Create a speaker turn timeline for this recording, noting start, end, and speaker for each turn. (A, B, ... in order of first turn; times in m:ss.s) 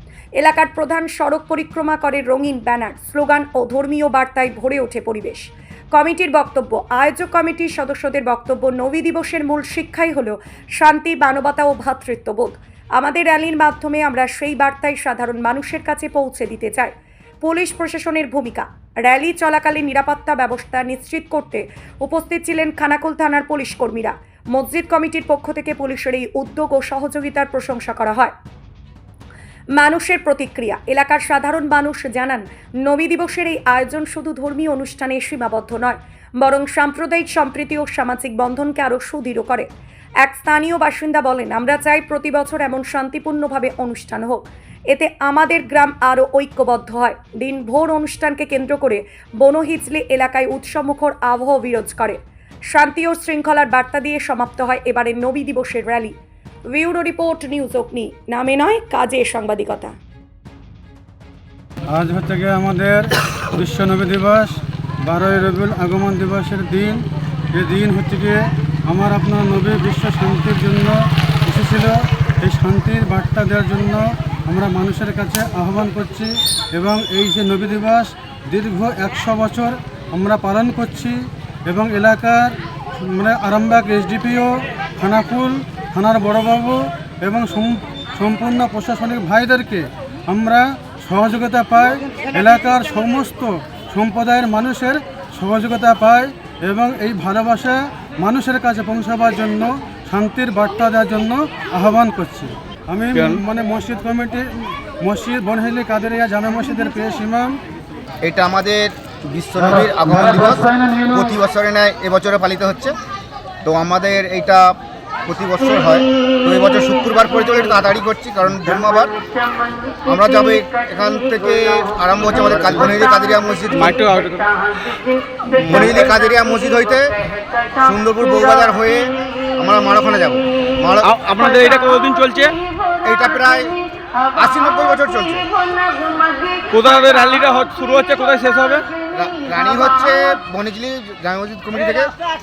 0:00.4-0:28.3 A
0:29.8-0:39.7 A
0:40.2-0:52.2 A
0:52.7-0:56.1 A
0:56.7-0:59.9 A
1:01.9-1:04.5 B
1:05.0-1:07.0 B
1:07.5-1:21.2 B
1:21.7-1:47.6 B
1:43.1-1:43.4 C
1:48.2-1:52.9 D
1:53.6-1:54.7 D
1:55.2-1:59.1 D
2:00.0-2:03.9 D
2:03.7-2:04.5 C
2:05.6-2:06.0 C
2:05.6-2:07.1 D
2:07.8-2:11.1 D
2:11.0-2:12.6 C
2:13.0-2:13.8 D
2:14.3-2:15.5 D
2:16.7-2:18.9 C
2:19.1-2:22.1 D